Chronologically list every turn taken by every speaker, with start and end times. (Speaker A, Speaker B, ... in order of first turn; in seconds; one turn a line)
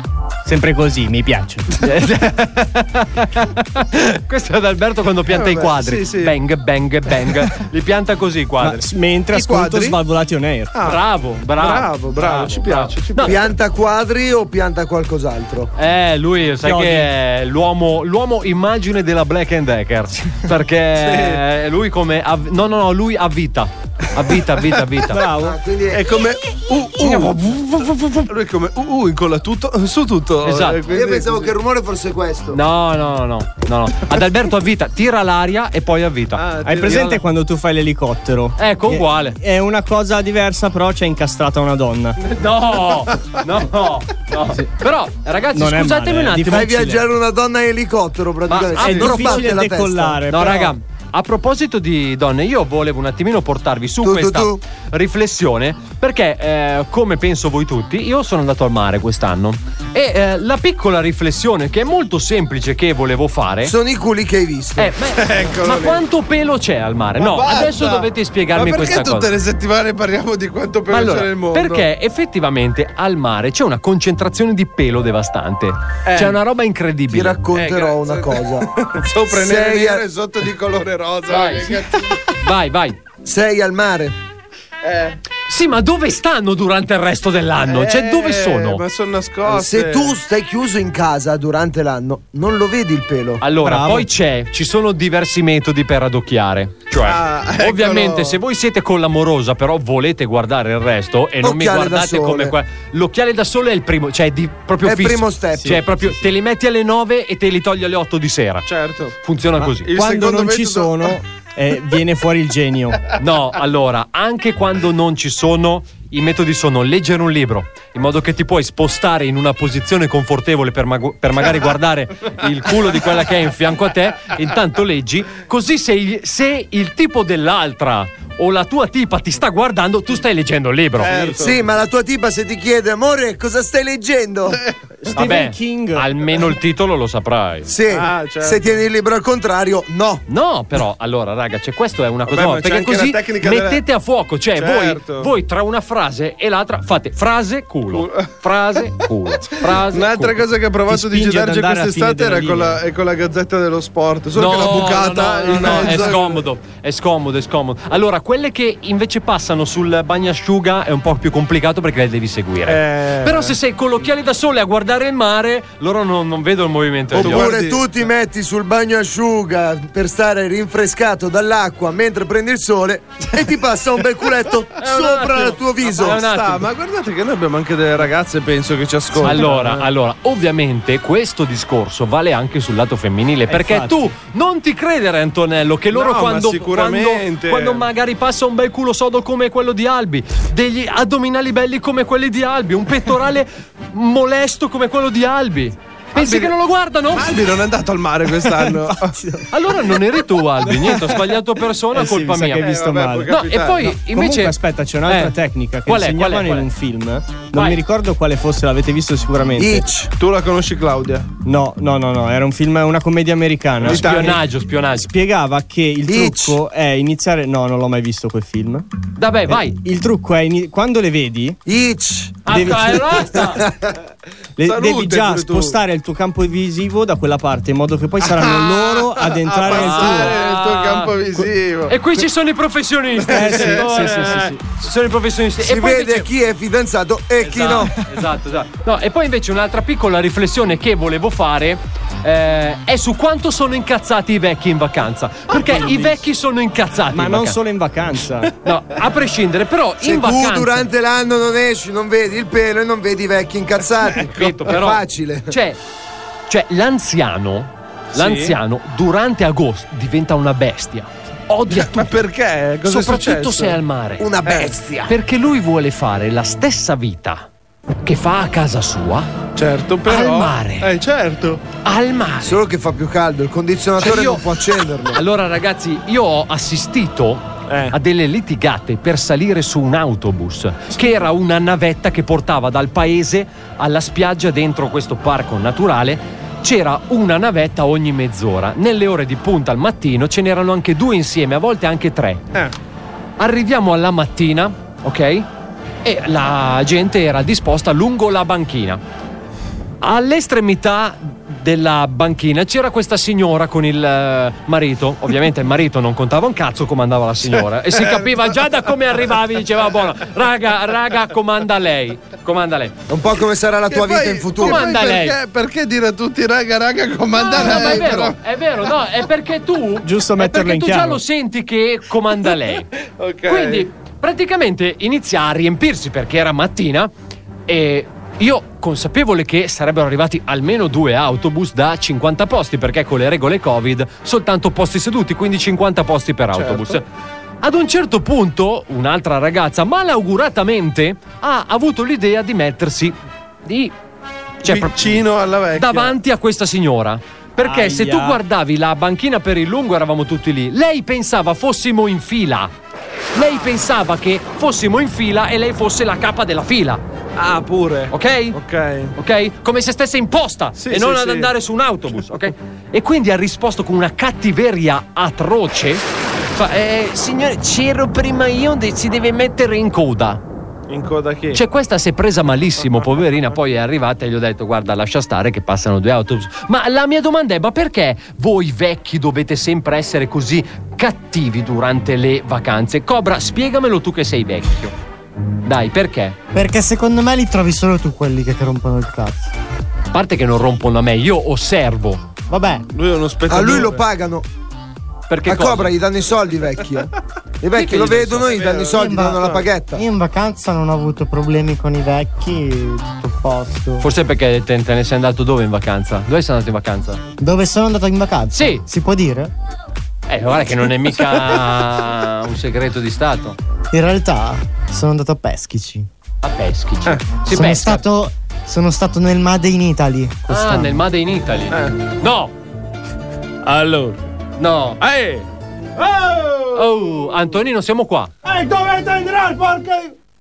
Speaker A: 0.5-1.7
Speaker B: 1.8-8.8
Speaker C: 5.3-6.4
Speaker A: 8.6-10.8
Speaker C: 9.3-10.0
Speaker C: 10.7-13.5
Speaker B: 10.8-13.4
Speaker D: 13.2-15.7
Speaker B: 15.8-25.2
Speaker A: 16.6-17.1
Speaker C: 21.0-21.4
Speaker A: 25.1-25.6
Speaker D: 25.4-26.0
Speaker C: 25.9-31.5
Speaker B: 30.4-30.8
Speaker D: 30.9-32.6
Speaker B: 32.5-36.4
Speaker C: 36.4-37.2
Speaker A: 36.6-42.2
Speaker B: 38.6-39.4
Speaker B: 42.2-46.7
Speaker A: 45.5-47.0
Speaker D: 46.4-50.2
Speaker B: 48.5-49.5
Speaker A: 48.8-50.8
Speaker B: 50.3-63.7
Speaker D: 54.0-54.6
Speaker D: 63.6-64.9
Speaker B: 64.8-69.3
Speaker C: 65.2-66.0
Speaker C: 67.2-71.9
Speaker B: 70.9-77.4
Speaker C: 76.1-76.4
Speaker D: 77.1-78.7
Speaker C: 77.5-82.2
Speaker D: 79.3-80.0
Speaker B: 81.3-81.8
Speaker B: 82.4-83.0
Speaker D: 83.2-84.2
Speaker C: 84.8-85.2
Speaker B: 85.5-88.8
Speaker C: 87.7-90.2
Speaker D: 89.4-93.4
Speaker B: 93.4-108.7
Speaker A: 93.6-94.1
Speaker C: 97.0-98.4
Speaker D: 101.4-102.6
Speaker D: 104.8-105.8
Speaker A: 105.6-106.1
Speaker C: 108.7-109.2
Speaker B: 109.2-109.9
Speaker A: 109.6-113.0
Speaker C: 109.8-111.2
Speaker B: 113.2-131.1
Speaker C: 131.0-131.6
Speaker D: 131.4-134.6
Speaker A: 135.0-136.1
Speaker B: 135.2-137.7
Speaker D: 137.7-140.2
Speaker C: 137.9-138.7
Speaker B: 140.3-150.4
Speaker C: 142.3-143.8
Speaker C: 144.6-145.3
Speaker C: 147.9-148.3
Speaker C: 149.7-156.4
Speaker A: 150.9-152.8
Speaker B: 154.4-167.5
Speaker C: 162.7-163.6
Speaker D: 167.1-176.2
Speaker C: 167.2-167.9
Speaker B: 174.8-176.7
Speaker C: 176.0-179.8
Speaker B: 179.2-197.3
Speaker A: 183.5-184.1
Speaker C: 185.9-187.8
Speaker C: 196.1-196.5
Speaker C: 197.1-199.2
Speaker A: 198.5-199.4
Speaker B: 199.5-202.7
Speaker A: 200.6-201.2
Speaker A: 201.9-209.8
Speaker C: 202.5-203.9
Speaker B: 203.3-204.6
Speaker B: 205.1-205.3
Speaker B: 205.9-206.7
Speaker B: 207.5-207.8
Speaker D: 209.6-210.1
Speaker C: 210.2-211.3
Speaker A: 211.4-214.4
Speaker C: 213.8-214.4
Speaker B: 213.8-215.1
Speaker A: 215.0-218.9
Speaker D: 216.1-216.6
Speaker B: 219.2-219.8
Speaker A: 219.5-221.6
Speaker D: 221.7-222.8
Speaker B: 222.5-223.6
Speaker A: 222.5-223.0
Speaker D: 223.3-224.0
Speaker A: 224.6-230.4
Speaker C: 224.6-225.8
Speaker C: 228.2-231.9
Speaker B: 229.7-231.1
Speaker B: 231.9-236.3
Speaker C: 233.2-234.4
Speaker A: 233.3-234.6
Speaker D: 235.6-237.9
Speaker B: 237.4-247.6
Speaker A: 245.7-246.1
Speaker A: 247.1-248.5
Speaker B: 248.6-250.9
Speaker D: 250.0-255.5
Speaker C: 254.2-254.5
Speaker B: 254.3-255.8
Speaker B: 256.5-262.1
Speaker C: 258.1-258.6
Speaker C: 261.7-263.8
Speaker B: 262.9-264.3
Speaker D: 264.2-265.1
Speaker C: 264.4-264.8
Speaker B: 265.1-267.5
Speaker B: 268.0-269.3
Speaker C: 269.6-271.6
Speaker B: 270.1-270.9
Speaker B: 271.9-272.6
Speaker D: 272.4-275.2
Speaker B: 274.0-274.4
Speaker B: 275.1-292.4
Speaker C: 277.7-277.9
Speaker B: 293.4-295.5
Speaker B: 296.0-299.0
Speaker B: 300.0-312.9
Speaker C: 307.9-308.6
Speaker D: 313.1-314.8
Speaker C: 313.9-318.4
Speaker B: 314.6-315.4
Speaker B: 317.4-322.9
Speaker A: 320.0-321.2
Speaker C: 323.0-323.9
Speaker B: 323.5-327.1
Speaker B: 327.7-337.1
Speaker C: 336.5-337.0
Speaker B: 337.6-343.9
Speaker B: 344.6-345.2
Speaker C: 344.6-346.2
Speaker B: 345.8-352.7
Speaker A: 347.6-348.4
Speaker B: 353.4-357.0
Speaker C: 357.4-359.1
Speaker B: 358.1-358.6
Speaker B: 359.2-370.4
Speaker C: 360.8-361.5
Speaker C: 370.9-371.6
Speaker B: 371.5-384.9
Speaker C: 372.9-373.5
Speaker B: 385.6-386.4
Speaker E: 386.5-389.5
Speaker B: 390.1-392.2
Speaker E: 392.5-392.9
Speaker C: 392.9-394.0
Speaker D: 393.5-394.5
Speaker B: 395.3-395.9
Speaker D: 395.5-400.0
Speaker B: 397.7-398.6
Speaker C: 398.4-399.6
Speaker E: 398.9-404.1
Speaker B: 404.0-407.2
Speaker E: 407.4-409.5
Speaker B: 408.5-408.8
Speaker B: 410.3-413.6
Speaker E: 413.9-416.1
Speaker B: 416.4-418.0
Speaker E: 417.5-421.0
Speaker B: 420.5-422.5
Speaker C: 423.6-424.2
Speaker B: 424.6-425.0
Speaker C: 425.0-425.5
Speaker C: 426.0-427.2
Speaker B: 426.8-428.3
Speaker C: 428.4-430.1